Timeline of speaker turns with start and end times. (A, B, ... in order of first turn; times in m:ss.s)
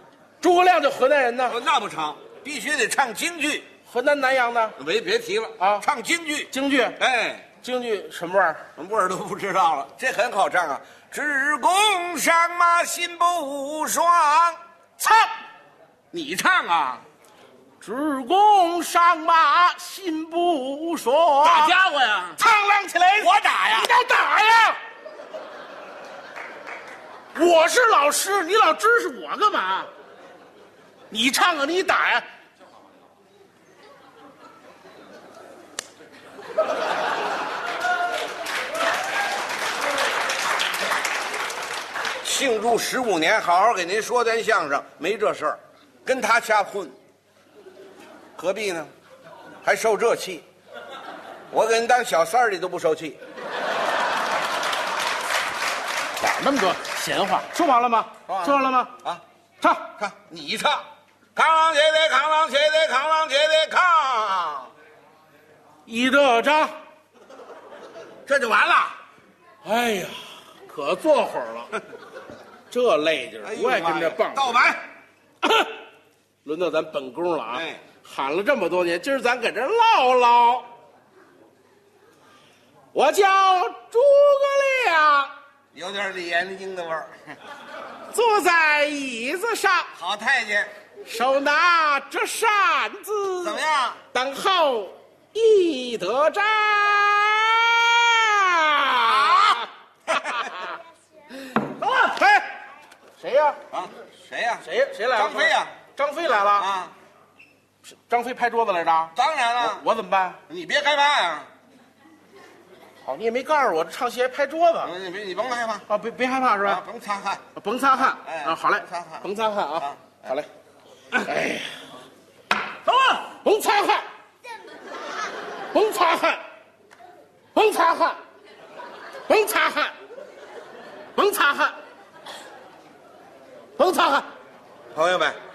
0:00.4-0:01.6 A
0:01.5-0:03.7 B
0:03.8-0:04.8 A
0:04.8-0:07.4 B
0:05.6-0:05.8 A
0:06.5-0:07.0 A
0:07.5-0:08.6 A
0:08.8-0:14.6 B
0:15.0-0:15.3 A
0:16.1-0:17.0 B
0:17.8-0:24.8 A
0:21.4-0:22.4 B
0:23.2-0:23.9 B
0:27.3-0:29.9 A
0:31.1-0:32.2 A
0:42.2-0:47.0 B
0:48.4-0:48.9 B
0:49.6-0:50.4 B
0:51.5-0:53.2 B
0:56.2-0:58.9 A
0:58.3-0:59.2 B
0:59.6-0:59.9 A
1:00.0-1:04.7 B
1:05.8-1:06.7 A
1:08.2-1:09.0 B
1:09.6-1:11.7 A
1:12.7-1:14.6 A
1:13.4-1:14.8 B
1:15.4-1:15.8 A
1:16.4-1:20.7 A
1:17.5-1:17.8 B
1:22.9-1:25.3 A
1:25.7-1:27.1 B
1:28.1-1:29.9 A
1:30.0-1:30.7 B
1:31.0-1:33.6 A
1:33.4-1:34.0 B
1:34.1-1:40.8 A
1:39.0-1:40.5 B
1:41.4-1:42.5 A
1:43.2-1:43.6 A
1:43.7-1:45.7 B
1:44.6-1:46.7 A
1:46.6-1:46.9 B
1:48.1-1:50.4 A
1:49.1-1:49.8 B
1:50.5-1:51.5 B
1:53.0-1:54.9 A
1:54.8-1:55.8 B
1:55.9-1:56.8 A
1:56.6-1:57.4 B
1:57.5-2:00.5 A
1:57.9-2:00.3 B
2:01.1-2:01.7 A
2:02.8-2:04.1 A
2:05.7-2:06.4 A
2:07.5-2:08.2 A
2:09.3-2:09.9 A
2:11.1-2:11.8 A
2:13.8-2:14.3 A
2:14.9-2:15.4 B